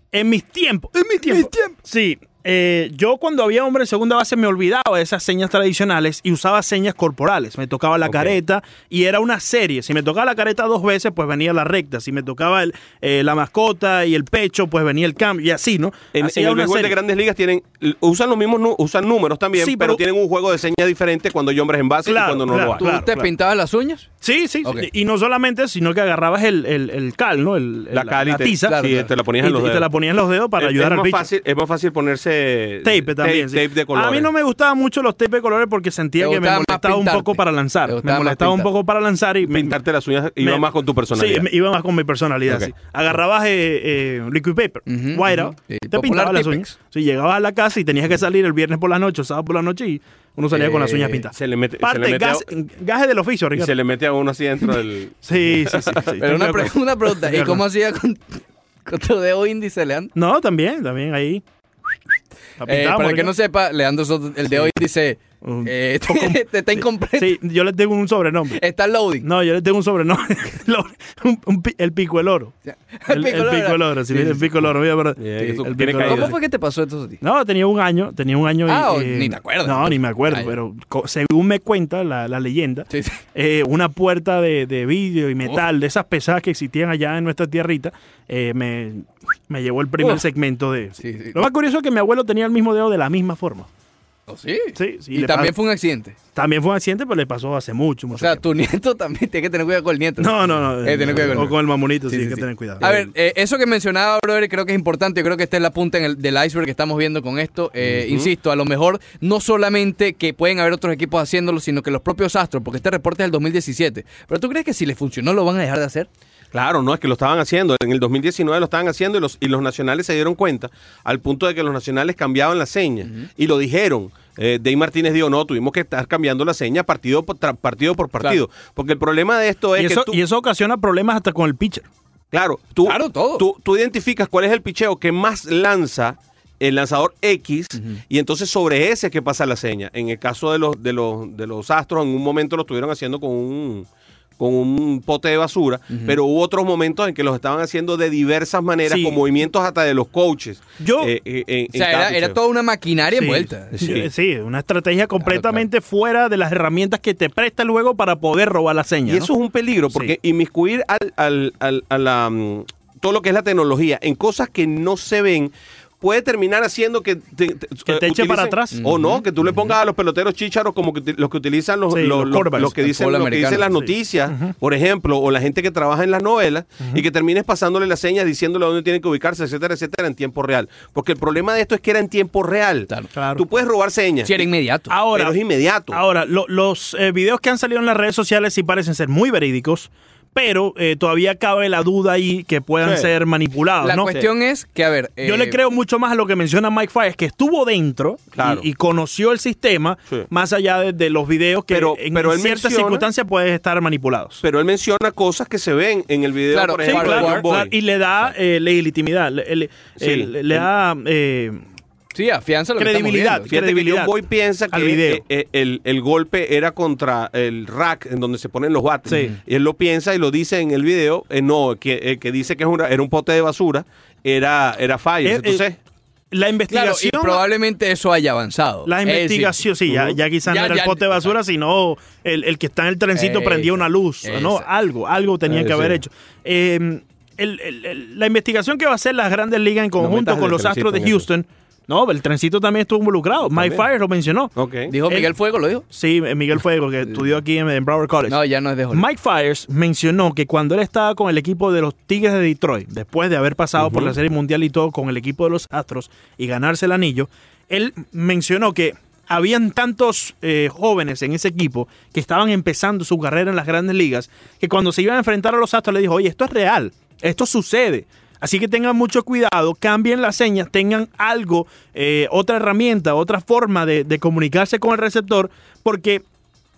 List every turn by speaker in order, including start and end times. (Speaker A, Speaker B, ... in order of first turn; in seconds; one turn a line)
Speaker A: 0.1-17.0
Speaker B: 1.3-1.8
Speaker C: 8.1-8.4
Speaker C: 16.1-22.9
Speaker A: 19.6-20.0
Speaker A: 22.1-23.3
Speaker B: 22.7-24.1
Speaker A: 24.2-31.3
Speaker C: 27.9-29.9
Speaker B: 28.5-29.1
Speaker C: 30.6-34.3
Speaker A: 32.8-39.8
Speaker B: 36.2-38.7
Speaker C: 39.5-41.5
Speaker A: 40.4-53.7
Speaker B: 44.9-46.7
Speaker B: 50.5-51.2
Speaker C: 51.3-52.5
Speaker C: 53.6-56.2
Speaker A: 55.2-57.6
Speaker B: 56.2-60.1
Speaker A: 60.1-61.4
Speaker A: 62.6-63.3
Speaker B: 62.7-67.4
Speaker A: 65.4-68.6
Speaker B: 68.5-69.3
Speaker A: 69.2-72.5
Speaker B: 72.7-74.5
Speaker A: 73.1-76.4
Speaker C: 75.2-76.4
Speaker B: 75.4-77.2
Speaker A: 77.2-93.7
Speaker B: 78.7-80.6
Speaker B: 82.9-83.2
Speaker B: 91.0-91.5
Speaker B: 94.3-96.2
Speaker A: 94.8-95.6
Speaker A: 96.3-98.5
Speaker B: 98.2-116.1
Speaker A: 100.2-103.0
Speaker C: 107.9-108.3
Speaker C: 116.5-130.2
Speaker A: 129.8-131.9
Speaker C: 132.3-143.9
Speaker B: 132.8-133.4
Speaker C: 144.4-152.4
Speaker A: 148.9-149.2
Speaker A: 150.8-151.1
Speaker B: 151.7-153.8
Speaker A: 153.2-159.3
Speaker C: 153.7-154.1
Speaker B: 155.2-155.6
Speaker C: 159.1-184.4
Speaker A: 167.9-168.8
Speaker B: 168.8-169.2
Speaker A: 171.9-172.8
Speaker B: 172.7-173.7
Speaker A: 183.2-183.4
Speaker B: 184.2-184.9
Speaker A: 184.9-185.4
Speaker C: 185.1-186.0
Speaker A: 185.9-194.2
Speaker C: 192.8-193.1
Speaker B: 193.8-195.6
Speaker A: 195.2-204.4
Speaker C: 198.4-198.7
Speaker C: 201.7-203.1
Speaker C: 204.4-207.7
Speaker B: 206.5-207.5
Speaker A: 206.9-211.6
Speaker C: 210.0-210.7
Speaker B: 212.1-213.5
Speaker A: 212.8-214.1
Speaker C: 213.5-225.8
Speaker A: 214.7-215.2
Speaker A: 219.1-219.3
Speaker A: 225.2-225.6
Speaker A: 226.3-227.4
Speaker B: 226.7-229.6
Speaker A: 228.9-244.5
Speaker B: 230.4-231.3
Speaker B: 233.2-234.7
Speaker C: 235.5-236.0
Speaker C: 240.0-241.3
Speaker C: 243.5-243.8
Speaker C: 244.6-244.9
Speaker B: 244.9-245.8
Speaker A: 245.9-248.4
Speaker B: 248.3-249.1
Speaker A: 248.9-276.2
Speaker C: 253.8-254.2